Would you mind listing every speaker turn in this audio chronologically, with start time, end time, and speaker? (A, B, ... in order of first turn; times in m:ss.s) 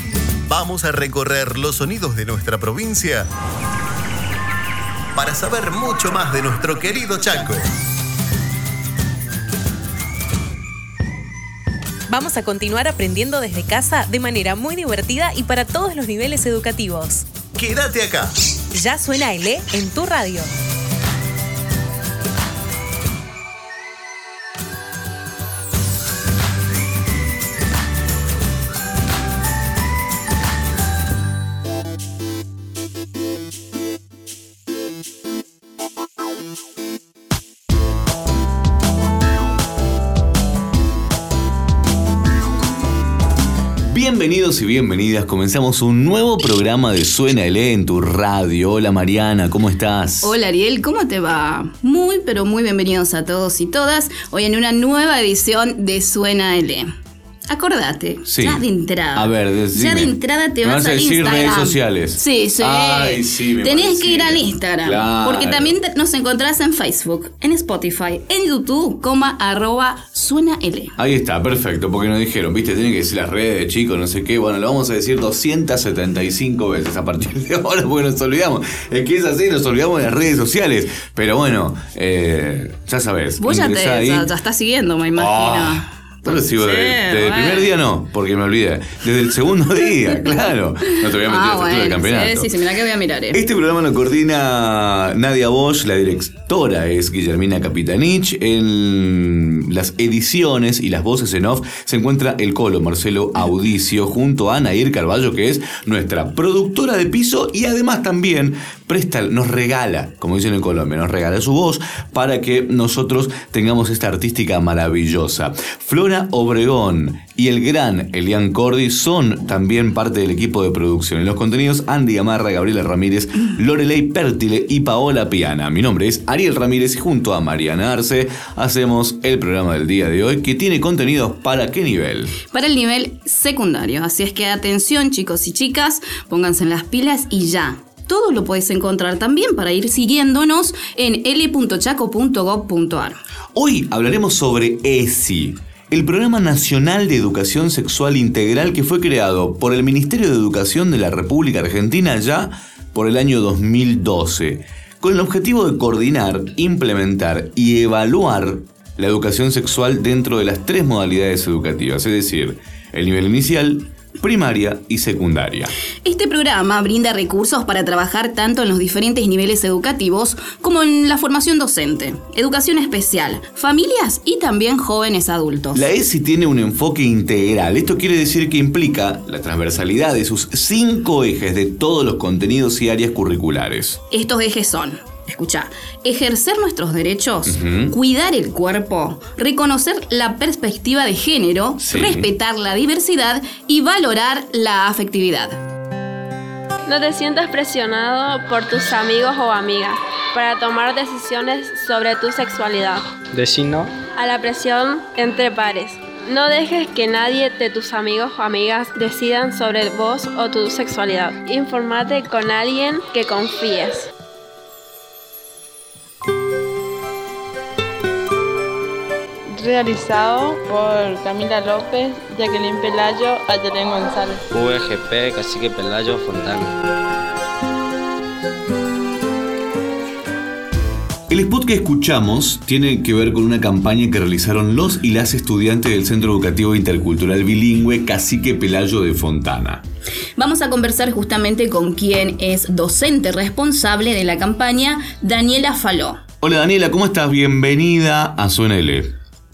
0:00.4-0:03.3 A
0:05.1-0:07.6 A
0:12.1-0:17.2 B
0:17.5-0:18.3 A
0:18.7-0:20.5 B
0:43.8-0:50.3 C
0:50.2-0:56.9 D
0:57.5-1:10.9 D
0:58.2-1:05.8 C
1:11.0-1:24.3 C
1:23.4-1:27.8 D
1:25.2-1:32.5 C
1:30.0-1:33.4 D
1:33.3-2:12.4 C
2:12.5-2:23.2 D
2:23.5-2:45.7 C
2:46.0-2:55.9 D
2:55.7-3:04.0 C
3:04.1-3:15.6 D
3:07.5-3:07.9 C
3:11.8-3:12.3 C
3:16.8-3:23.0 E
3:23.3-3:23.9 F
3:24.1-3:34.1 E
3:39.5-3:44.4 G
3:44.5-3:46.7 F
3:51.3-3:59.8 C
4:00.4-4:06.2 D
4:06.4-4:09.1 C